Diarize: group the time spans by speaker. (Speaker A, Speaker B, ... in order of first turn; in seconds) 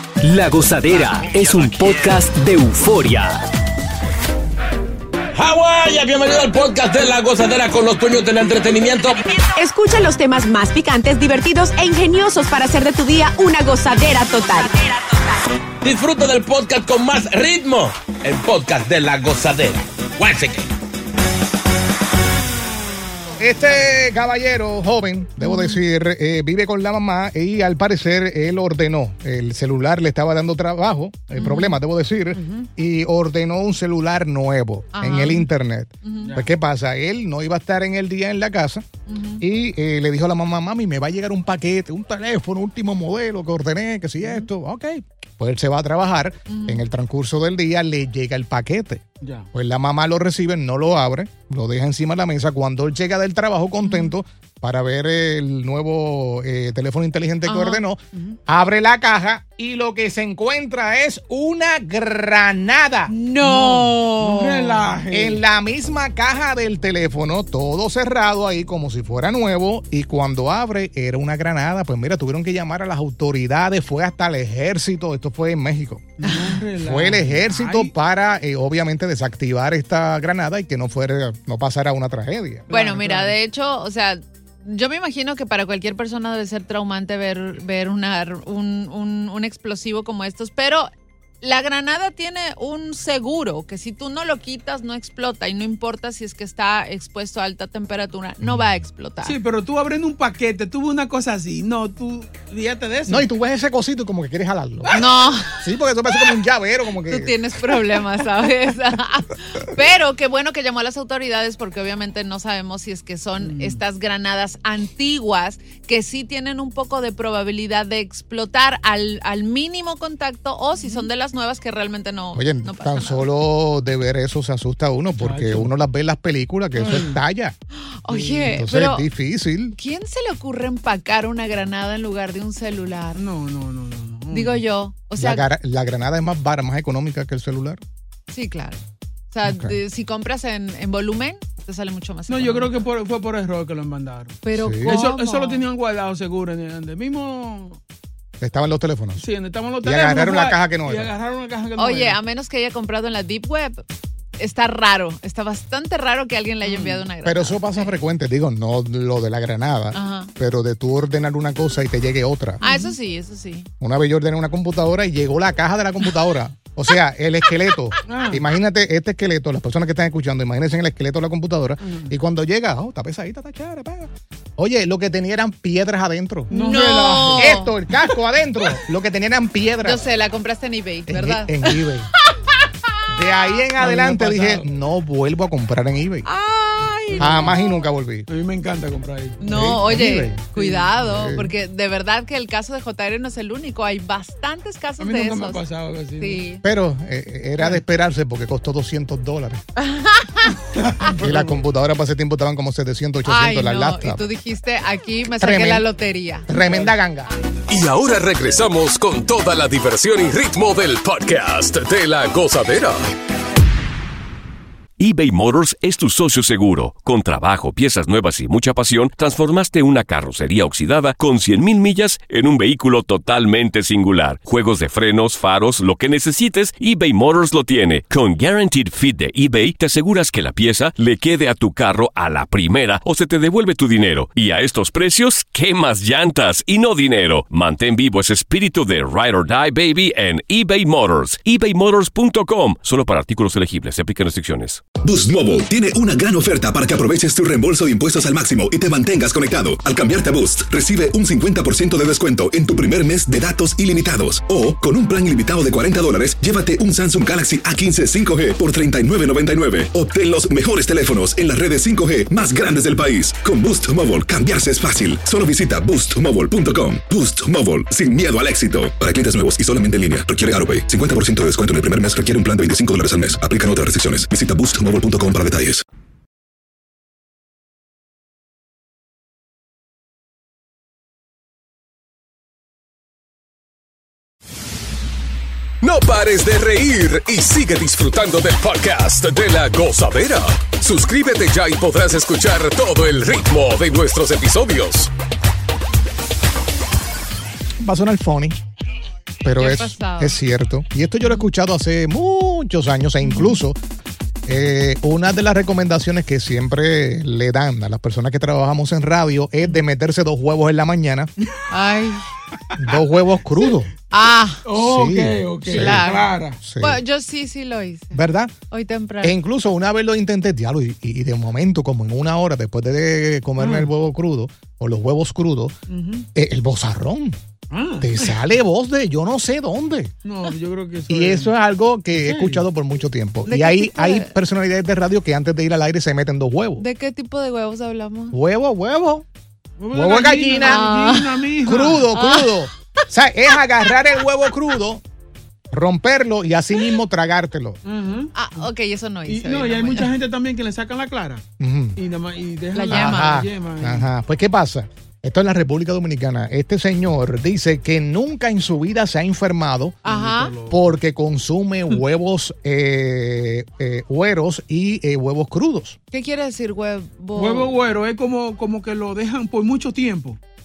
Speaker A: 0.2-3.4
Speaker B: 5.3-9.2, 15.8-20.7
Speaker C: 9.5-15.0
Speaker D: 23.4-38.9, 39.4-63.1, 65.1-76.1, 76.8-82.7, 103.1-105.0, 105.6-107.3, 122.3-127.6, 128.6-129.8, 135.2-137.8, 139.5-139.8, 144.5-145.0, 148.4-149.2, 149.8-151.1, 157.2-162.6, 163.8-176.5, 177.4-180.1, 181.1-182.1, 183.1-186.3, 187.2-188.3, 189.4-191.5, 196.6-199.6, 201.1-204.3, 205.4-205.9, 206.5-207.3, 297.8-298.6, 299.4-303.8, 304.5-311.3, 312.8-313.9, 314.7-317.0, 318.1-318.6, 319.2-325.8, 326.4-327.4, 328.0-330.1, 331.1-336.9, 338.3-339.3, 339.9-341.0, 341.6-345.0, 345.7-347.8, 351.6-352.0, 352.9-360.0, 360.7-366.0
Speaker E: 25.4-25.8, 31.3-31.8, 34.9-35.5, 36.0-36.4, 39.1-39.4, 46.5-46.9, 53.8-54.1, 57.5-57.9, 63.1-64.9, 82.7-90.9, 91.4-99.4, 104.9-105.6, 107.1-123.3, 128.0-129.1, 129.8-133.2, 134.3-135.5, 138.3-138.8, 139.3-142.7, 144.4-145.7, 151.8-153.8, 154.4-158.0, 159.9-160.3, 162.6-163.7, 176.5-177.8, 179.8-181.9, 186.2-187.6, 189.4-195.6, 196.2-196.6, 199.8-200.6, 203.2-206.5, 299.5-300.4, 311.7-312.2, 314.1-314.6, 315.7-319.4, 333.5-334.3, 336.8-338.4, 340.6-341.5, 342.1-342.6, 348.4-350.2, 352.8-353.4, 360.0-360.6, 366.1-367.8
Speaker F: 32.4-32.7, 36.2-36.5, 49.2-49.5, 63.4-65.4, 76.2-77.9, 82.7-83.3, 99.2-103.3, 113.4-113.8, 125.1-125.7, 126.8-127.2, 128.1-128.6, 133.2-134.6, 142.3-147.8, 149.2-152.2, 156.7-157.0, 162.6-162.9, 168.1-168.4, 171.8-172.2, 176.5-177.6, 183.8-184.7, 187.2-187.6, 188.3-189.4, 190.6-190.9, 195.0-196.4, 200.8-201.5, 206.6-206.9, 314.6-316.6, 323.6-323.9, 325.9-326.3, 327.7-328.4, 330.2-331.6, 332.1-332.7, 339.8-342.1, 347.8-348.3, 349.3-351.4, 352.0-354.1, 360.1-360.9, 367.4-370.4
Speaker G: 207.7-213.0, 285.8-295.1
Speaker H: 215.0-244.8
Speaker I: 245.0-275.8